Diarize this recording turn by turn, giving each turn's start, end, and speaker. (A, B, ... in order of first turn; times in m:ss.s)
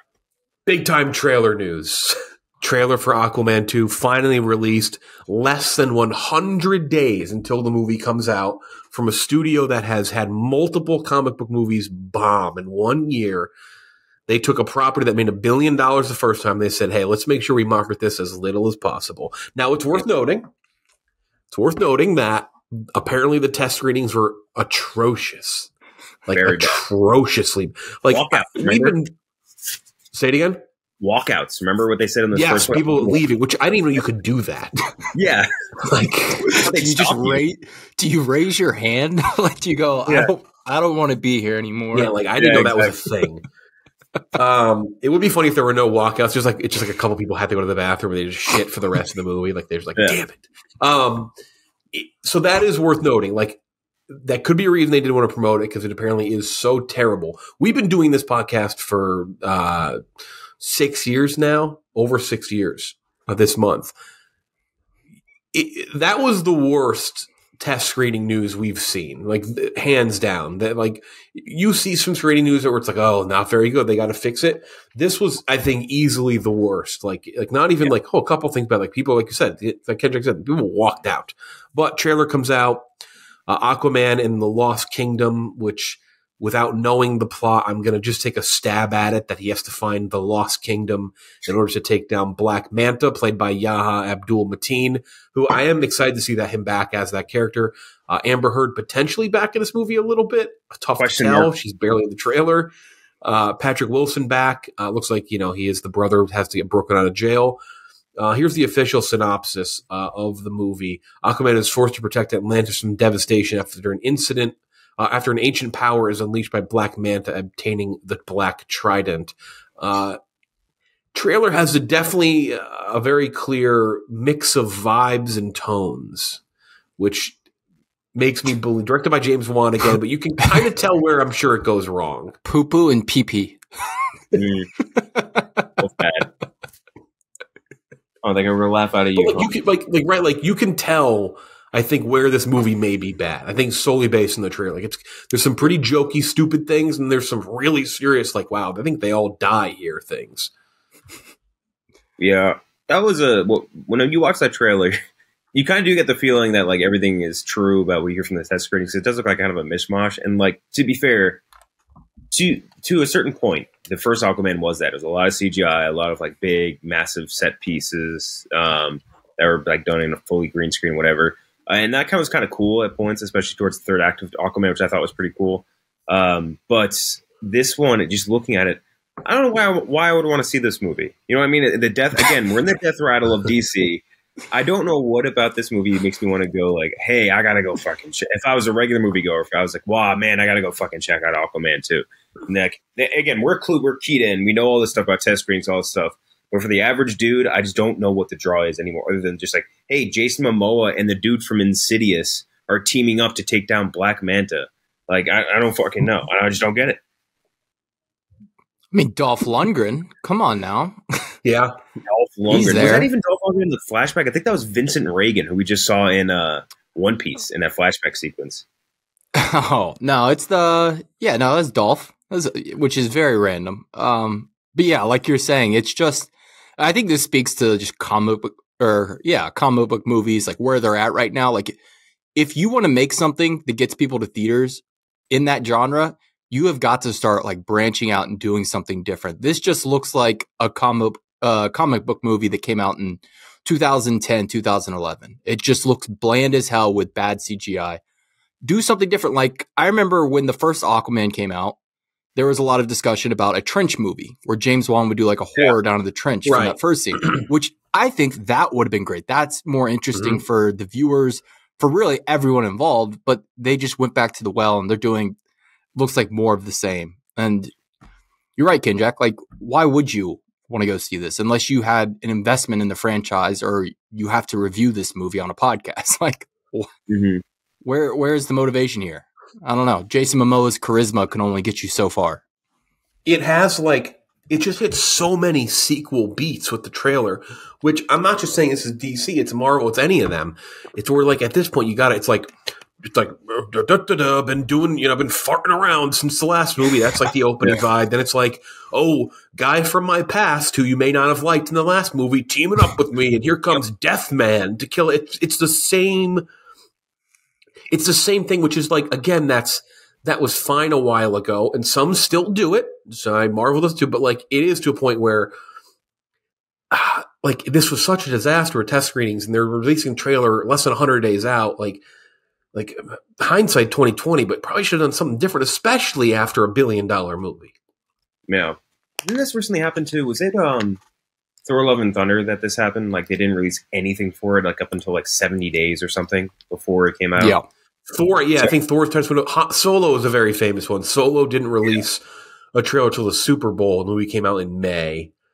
0:00.7-0:13.5 A
0:14.3-0:20.5 A
0:21.5-0:25.7 A
0:26.3-0:29.1 A
0:26.3-0:26.8 B
0:28.1-0:29.0 B
0:30.1-0:30.6 A
0:31.0-0:33.2 B
0:32.3-0:34.8 A
0:35.1-0:35.5 B
0:35.8-0:36.6 A
0:36.5-0:37.4 B
0:36.7-0:42.1 C
0:41.9-0:43.4 A
0:42.4-0:42.9 B
0:44.4-0:51.3 A
0:51.9-0:53.6 A
0:54.1-1:00.0 A
1:00.6-1:03.9 A
1:05.5-1:22.9 A
1:23.5-1:47.6 A
1:41.0-1:41.5 B
1:48.2-2:00.2 A
2:01.1-2:06.4 A
2:07.0-2:07.4 A
2:08.2-2:12.4 A
2:12.4-2:13.9 C
2:14.3-2:14.7 B
2:14.9-2:15.8 C
2:15.8-2:16.3 B
2:18.2-2:19.5 B
2:19.2-2:30.5 A
2:32.2-2:35.0 B
2:35.5-2:41.4 B
2:42.3-3:27.0 B
3:28.9-3:31.4 C
3:31.4-3:31.8 A
3:32.1-3:38.6 B
3:32.5-3:33.1 C
3:39.4-3:51.8 C
3:52.4-4:08.0 C
4:08.6-4:11.8 C
4:12.4-4:25.4 C
4:16.5-4:17.4 A
4:26.0-4:27.7 C
4:28.6-4:36.9 C
4:37.1-4:37.4 B
4:37.8-4:42.4 C
4:43.2-4:52.5 A
4:53.0-5:06.4 A
5:07.9-5:15.5 A
5:16.9-5:22.0 A
5:22.7-5:27.8 A
5:28.5-5:31.0 B
5:31.7-5:37.6 B
5:37.4-5:37.6 C
5:38.1-5:42.2 A
5:42.8-5:45.3 A